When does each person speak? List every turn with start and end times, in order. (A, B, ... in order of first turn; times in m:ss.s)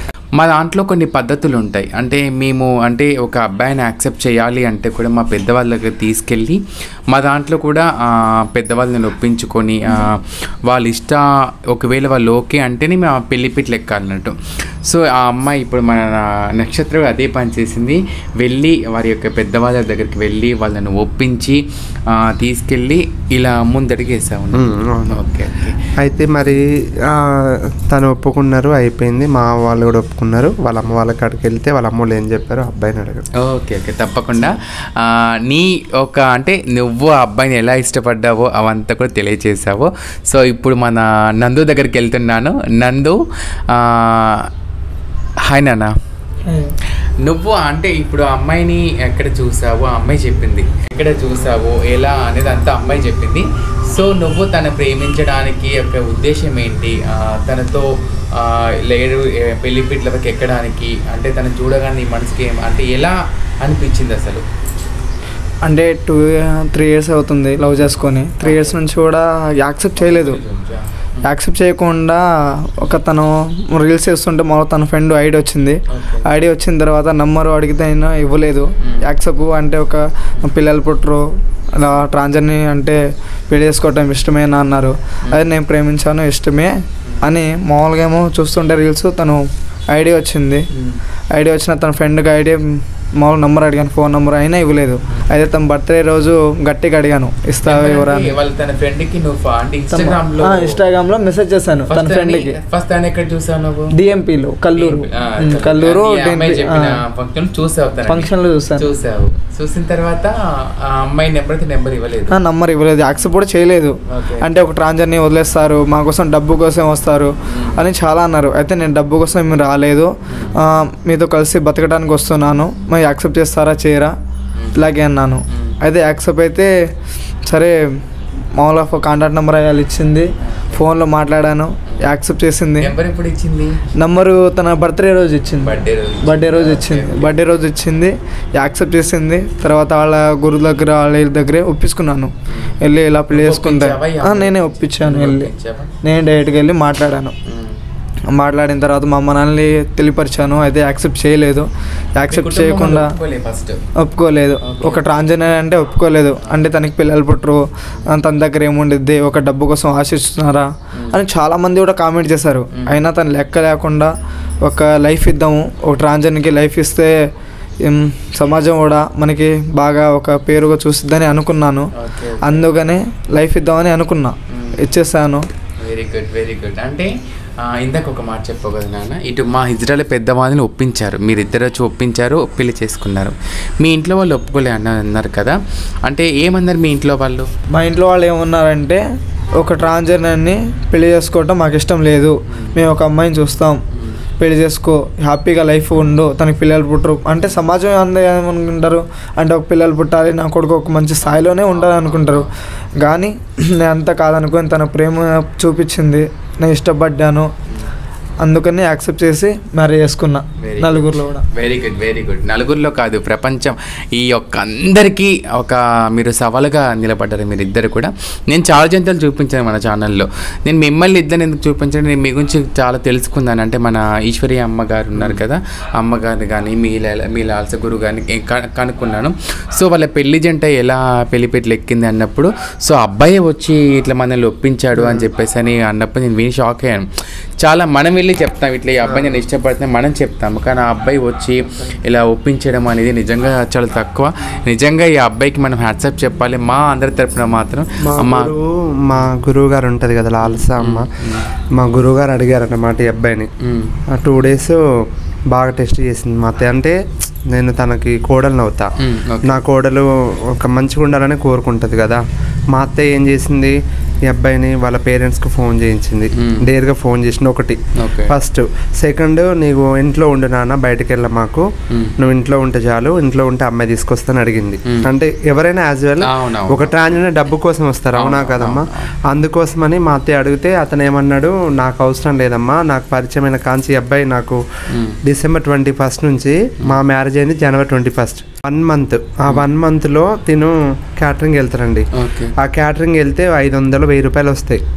0:00.3-0:25.9 A
0:24.5-0:25.2 B
0:26.0-0:33.2 B
0:33.4-0:44.5 A
0:45.4-0:45.9 A
0:46.4-0:46.7 C
0:47.2-1:04.4 A
1:05.6-1:10.4 C
1:08.4-1:08.8 A
1:10.0-1:11.3 A
1:11.2-1:30.7 C
1:15.9-1:16.3 A
1:18.8-1:19.0 A
1:25.2-1:25.5 A
1:27.0-1:27.3 A
1:30.7-1:31.0 A
1:31.3-1:38.3 C
1:37.6-1:40.8 A
1:39.9-1:42.6 C
1:41.9-1:44.0 A
1:43.9-1:47.0 C
1:44.8-1:52.4 A
1:48.1-1:48.9 C
1:52.3-2:04.1 C
1:54.1-1:54.5 A
1:57.5-1:57.8 A
2:00.3-2:00.6 A
2:04.5-2:04.8 A
2:04.7-2:06.7 C
2:05.5-2:05.8 A
2:07.4-2:08.0 C
2:08.6-2:12.9 C
2:10.4-2:10.8 A
2:12.8-2:13.9 A
2:14.0-2:25.5 C
2:15.6-2:17.4 A
2:22.5-2:22.8 A
2:23.3-2:25.9 A
2:26.0-2:27.4 C
2:27.5-2:27.8 A
2:28.3-2:33.1 C
2:32.3-2:33.8 A
2:34.0-2:44.1 C
2:34.6-2:35.1 A
2:36.4-2:36.7 A
2:42.7-2:43.1 A
2:44.6-2:47.3 C
2:47.8-2:51.9 C
2:51.9-2:52.8 A
2:52.4-2:55.5 C
2:54.5-2:54.8 A
2:55.8-3:07.5 A
3:07.7-3:09.0 C
3:09.6-3:13.8 C
3:12.5-3:12.8 A
3:13.9-3:14.2 A
3:14.4-3:22.5 C
3:21.7-3:22.5 A
3:23.0-3:27.5 C
3:28.4-3:31.4 C
3:30.6-3:57.1 A
3:45.2-3:45.4 B
3:54.9-3:55.3 B
3:57.6-4:08.5 A
3:59.0-3:59.3 B
4:08.0-4:11.1 B
4:10.4-4:11.5 A
4:11.7-4:13.5 B
4:13.6-4:13.9 A
4:14.1-4:18.9 B
4:19.0-4:19.6 A
4:19.4-4:44.6 B
4:26.4-4:26.7 A
4:28.0-4:28.3 A
4:36.2-4:36.9 A
4:38.2-4:39.1 A
4:44.9-4:45.2 A
4:45.2-4:54.8 B
4:52.1-4:52.5 A